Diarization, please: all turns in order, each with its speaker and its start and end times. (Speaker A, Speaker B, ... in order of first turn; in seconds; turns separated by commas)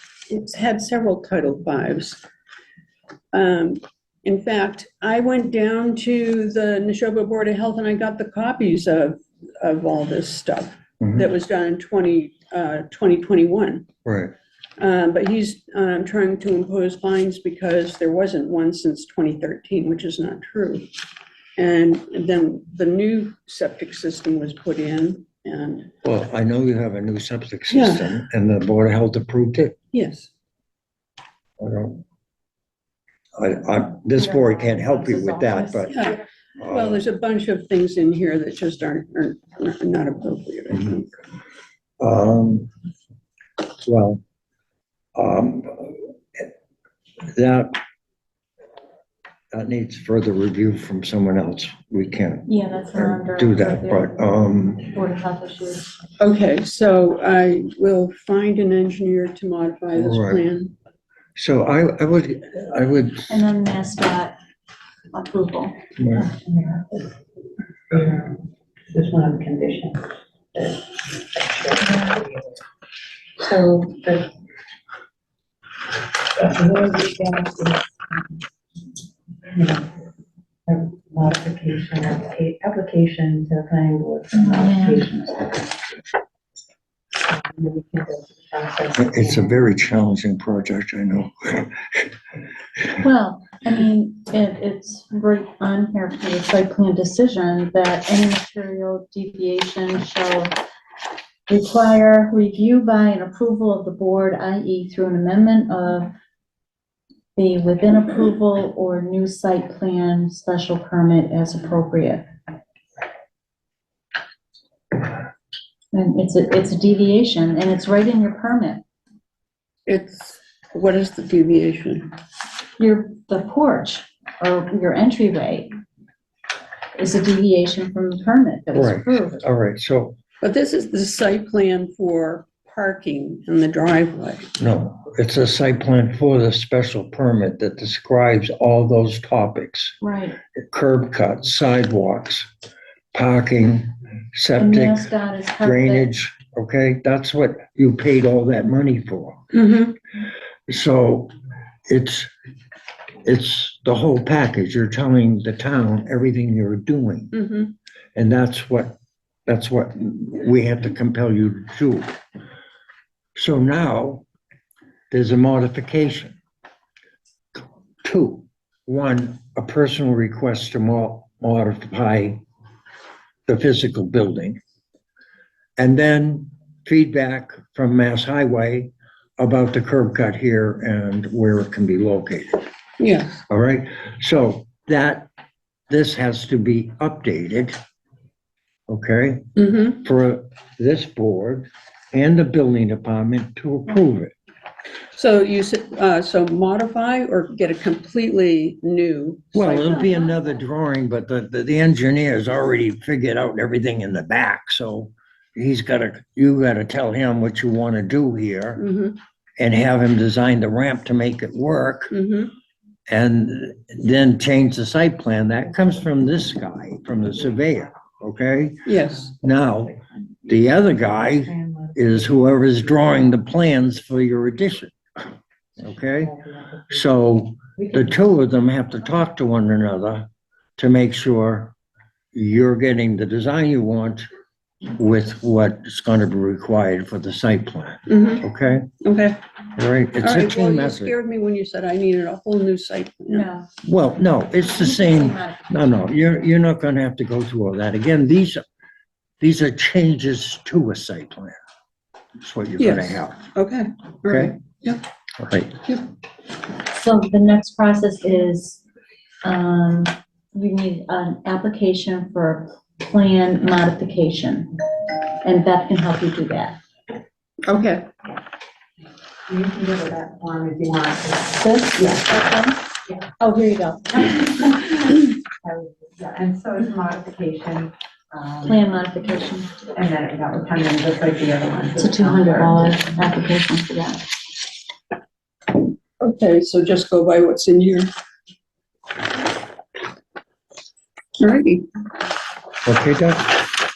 Speaker A: 0.3-2.2, Speaker A: 3.3-13.9, Speaker B: 11.0-11.3, Speaker B: 14.0-14.3, Speaker A: 14.8-20.9, Speaker A: 21.6-25.9, Speaker B: 26.0-29.8, Speaker A: 27.7-28.1, Speaker A: 29.9-30.3, Speaker B: 31.6-32.0, Speaker B: 33.4-36.0, Speaker C: 34.1-36.2, Speaker B: 36.6-37.0, Speaker A: 36.7-41.2, Speaker B: 42.0-42.7, Speaker B: 43.8-44.2, Speaker B: 45.1-46.5, Speaker B: 47.3-47.8, Speaker B: 49.5-54.9, Speaker C: 52.5-54.2, Speaker C: 54.8-55.9, Speaker A: 56.2-60.7, Speaker B: 59.9-60.4, Speaker B: 61.4-63.3, Speaker C: 63.3-64.4, Speaker C: 65.1-65.8, Speaker B: 66.0-66.3, Speaker D: 66.1-67.2, Speaker D: 67.9-72.6, Speaker D: 73.4-74.3, Speaker D: 76.3-78.2, Speaker D: 79.5-79.9, Speaker D: 80.7-85.7, Speaker C: 84.3-85.2, Speaker D: 87.2-89.6, Speaker B: 88.9-92.1, Speaker C: 93.0-100.5, Speaker C: 101.5-106.1, Speaker C: 107.3-112.2, Speaker C: 115.9-118.8, Speaker A: 119.9-122.1, Speaker C: 122.8-125.7, Speaker C: 126.9-129.4, Speaker B: 128.7-130.2, Speaker A: 130.4-134.5, Speaker B: 134.6-139.9, Speaker C: 140.0-140.4, Speaker B: 140.6-142.5, Speaker B: 143.1-149.4, Speaker C: 144.6-146.1, Speaker A: 149.5-149.9, Speaker B: 150.7-151.3, Speaker B: 151.9-152.3, Speaker B: 153.2-157.3, Speaker A: 157.3-157.7, Speaker B: 158.1-162.1, Speaker B: 163.3-164.2, Speaker B: 165.1-166.4, Speaker B: 167.5-172.4, Speaker B: 173.5-174.6, Speaker B: 175.8-182.7, Speaker A: 183.0-183.4, Speaker B: 183.5-185.3, Speaker B: 185.9-187.8, Speaker B: 188.9-194.3, Speaker A: 189.6-190.0, Speaker A: 195.1-200.3, Speaker B: 199.5-208.8, Speaker A: 208.8-209.2, Speaker B: 209.6-212.1, Speaker A: 212.1-212.5, Speaker B: 213.1-225.2, Speaker A: 218.8-219.3, Speaker D: 221.5-221.9, Speaker B: 225.8-226.3, Speaker D: 226.2-227.0, Speaker B: 226.9-231.7, Speaker D: 227.8-228.1, Speaker B: 232.3-234.3, Speaker B: 234.9-238.9, Speaker A: 238.1-238.4, Speaker A: 239.0-239.4, Speaker B: 239.8-241.1, Speaker A: 240.2-243.5, Speaker C: 243.3-243.7, Speaker B: 243.8-248.6, Speaker C: 244.6-246.1, Speaker B: 249.4-251.6, Speaker B: 252.4-253.5, Speaker A: 252.8-255.0, Speaker B: 254.2-254.5, Speaker B: 255.4-255.7, Speaker C: 256.8-258.8, Speaker C: 259.4-264.7, Speaker C: 265.4-266.8, Speaker A: 267.6-268.1, Speaker D: 269.5-272.4, Speaker C: 271.6-272.9, Speaker C: 273.4-274.6, Speaker D: 274.6-278.8, Speaker C: 278.6-279.7, Speaker D: 279.9-282.9, Speaker C: 282.0-284.2, Speaker A: 286.2-288.1, Speaker A: 291.4-291.9, Speaker B: 292.8-293.6